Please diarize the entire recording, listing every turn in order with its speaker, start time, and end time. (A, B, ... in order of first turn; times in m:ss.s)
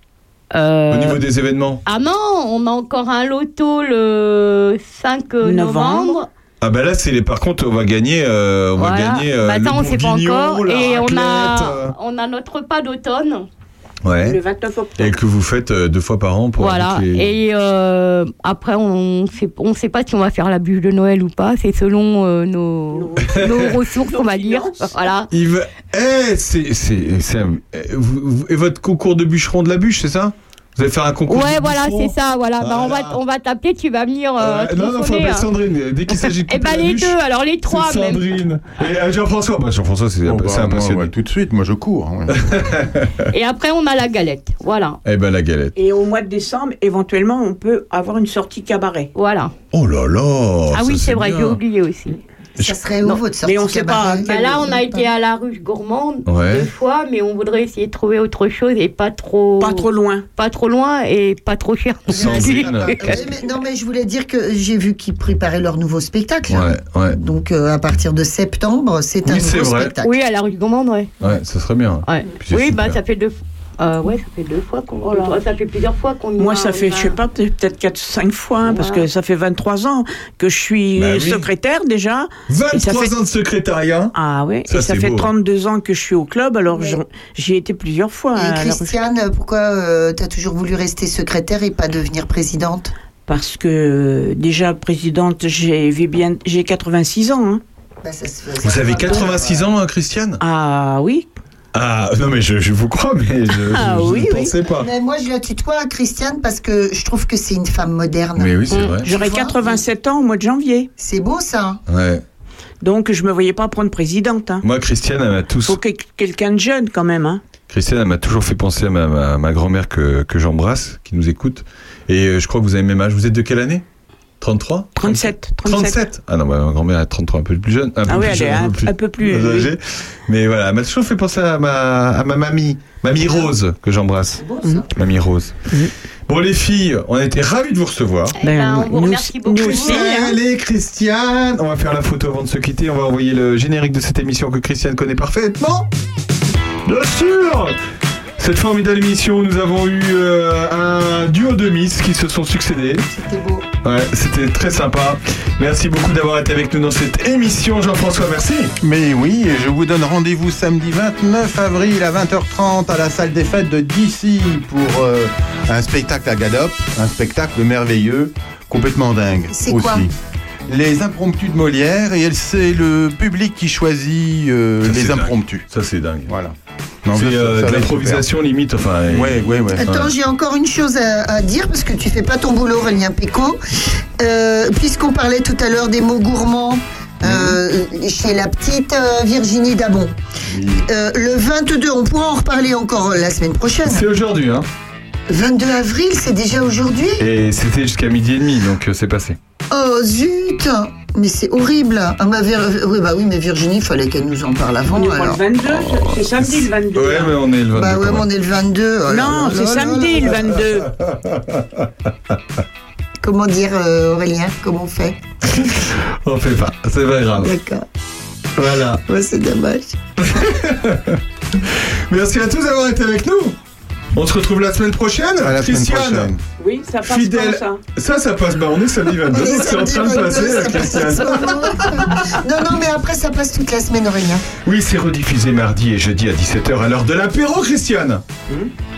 0:00.5-0:01.2 A
0:00.9-0:01.8 B
0:01.9-0:06.3 A
0:05.4-0:06.2 C
0:06.6-0:12.0 B
0:08.8-0:13.5 A
0:14.0-0:14.4 B
0:14.2-0:15.2 C
0:15.0-0:17.4 B
0:16.6-0:25.3 A
0:22.9-0:23.4 C
0:23.2-0:23.8 B
0:24.0-0:25.1 C
0:25.3-0:33.2 B
0:31.3-0:35.5 A
0:34.4-0:41.1 B
0:36.1-0:38.2 A
0:40.2-0:42.5 D
0:42.3-0:43.3 B
0:43.3-0:45.0 A
0:45.0-0:45.8 B
0:45.8-0:49.1 C
0:49.2-0:49.5 A
0:49.7-0:51.6 B
0:50.7-0:52.2 A
0:52.6-0:54.8 E
0:53.4-0:55.0 C
0:54.2-1:03.1 A
0:56.3-0:56.7 B
0:59.6-1:00.3 C
1:02.1-1:03.2 B
1:02.1-1:10.2 E
1:02.2-1:02.9 D
1:06.5-1:07.2 B
1:09.2-1:10.0 B
1:10.0-1:11.4 A
1:11.2-1:13.0 B
1:12.0-1:17.2 A
1:15.0-1:15.4 C
1:16.4-1:23.1 C
1:18.7-1:19.1 A
1:21.0-1:21.5 B
1:22.5-1:24.2 B
1:24.2-1:29.0 C
1:24.7-1:25.3 B
1:28.4-1:32.9 E
1:33.3-1:37.6 C
1:38.0-1:39.7 E
1:38.6-1:40.4 B
1:40.4-1:41.3 C
1:41.7-1:44.9 B
1:43.5-1:44.5 C
1:44.6-1:49.8 E
1:48.4-1:49.1 B
1:48.7-1:50.9 C
1:51.0-1:51.8 E
1:51.9-1:52.2 B
1:52.8-1:54.6 C
1:54.6-1:55.8 B
1:55.6-1:57.4 C
1:57.7-2:03.8 B
2:04.4-2:15.6 B
2:05.0-2:06.0 C
2:08.1-2:09.7 C
2:13.2-2:13.5 E
2:14.4-2:14.9 E
2:16.3-2:18.4 B
2:18.4-2:20.0 A
2:18.4-2:20.4 C
2:19.6-2:25.9 B
2:26.9-2:27.8 B
2:28.4-2:33.1 B
2:33.1-2:33.7 E
2:33.8-2:38.7 B
2:38.8-2:50.1 D
2:49.5-2:50.1 E
2:50.7-2:55.7 D
2:54.8-2:56.3 B
2:56.3-2:58.3 D
2:57.1-3:00.1 B
2:59.1-2:59.8 D
2:59.7-3:03.6 E
3:04.2-3:10.2 E
3:10.5-3:10.8 B
3:10.8-3:14.0 E
3:13.8-3:14.7 B
3:15.3-3:17.3 E
3:17.2-3:19.4 B
3:19.7-3:25.5 E
3:24.9-3:27.4 C
3:26.4-3:28.2 B
3:27.7-3:30.5 E
3:29.1-3:30.9 C
3:31.0-3:31.9 B
3:33.2-3:35.2 E
3:35.6-3:37.5 B
3:37.4-3:37.9 E
3:38.6-3:39.0 B
3:39.1-3:40.5 E
3:40.2-3:43.6 B
3:44.2-3:46.3 B
3:45.4-3:46.4 D
3:46.6-3:47.8 C
3:47.1-3:52.2 B
3:49.3-3:54.5 E
3:54.6-3:58.2 B